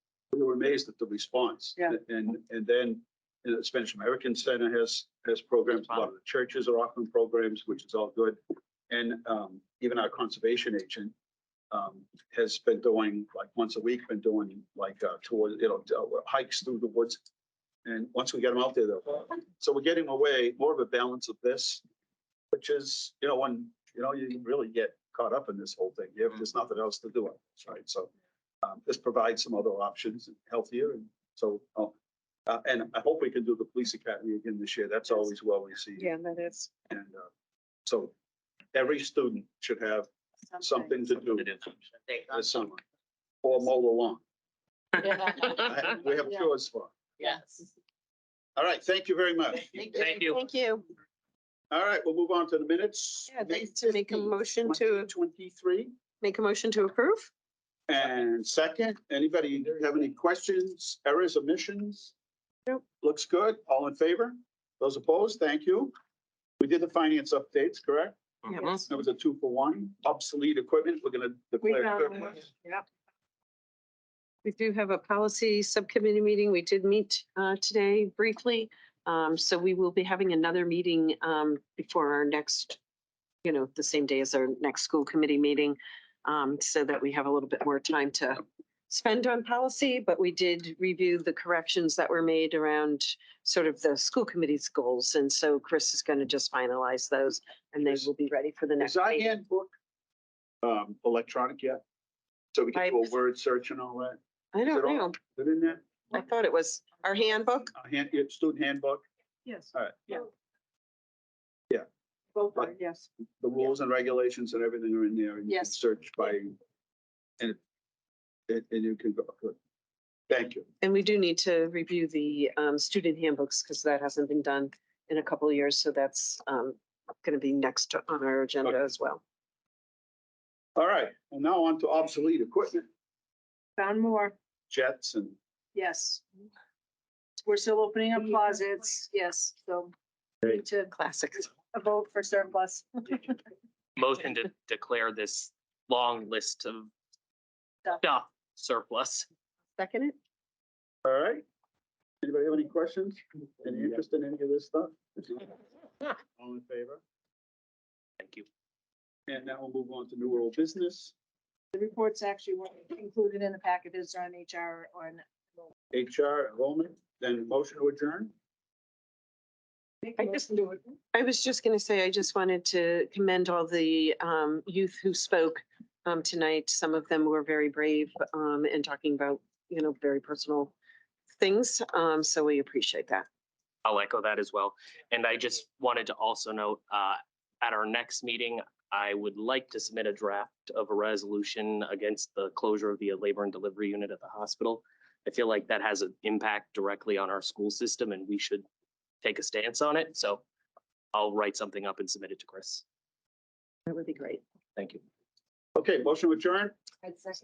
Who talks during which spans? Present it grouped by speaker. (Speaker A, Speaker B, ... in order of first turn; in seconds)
Speaker A: 0.3-11.1, 11.7-17.2, 17.8-21.8, 22.5-28.1, 28.6-31.9, 32.5-36.1, 36.9-37.3, 37.9-38.1, 38.7-41.5, 42.3-42.8, 43.4-44.2, 45.4-47.3, 48.5-49.9, 51.7-55.9, 57.9-62.1, 63.0-65.9, 66.6-68.2, 68.7-72.5, 98.8-99.7, 100.6-101.8, 102.5-105.8, 107.7-109.0, 109.7-110.3, 113.4-116.6, 118.5-119.6, 120.3-120.7, 130.8-132.9, 134.7-135.4, 151.0-151.4, 152.2-155.6, 156.3-157.0, 159.3-161.1, 165.9-168.3, 205.8-206.8
Speaker B: 36.0-36.7, 49.9-50.9, 53.3-55.1, 56.2-57.3, 68.5-68.9, 74.4-82.8, 83.4-99.3, 102.7-103.1, 104.5-105.2, 106.1-107.7, 120.8-129.2, 140.9-141.5, 149.8-150.2, 170.2-170.6, 171.1-180.7, 181.4-183.2, 203.9-204.4
Speaker C: 41.5-42.2, 49.9-50.4, 144.0-146.9, 148.0-149.3, 158.2-158.4, 183.8-198.7, 199.2-200.4, 201.1-202.8, 204.8-205.0
Speaker D: 71.6-72.8, 109.4-109.7, 112.3-113.1, 115.5-115.8, 133.8-134.3, 135.7-136.4, 137.4-139.9, 140.4-140.9, 141.5-143.4, 161.7-165.6, 170.0-170.9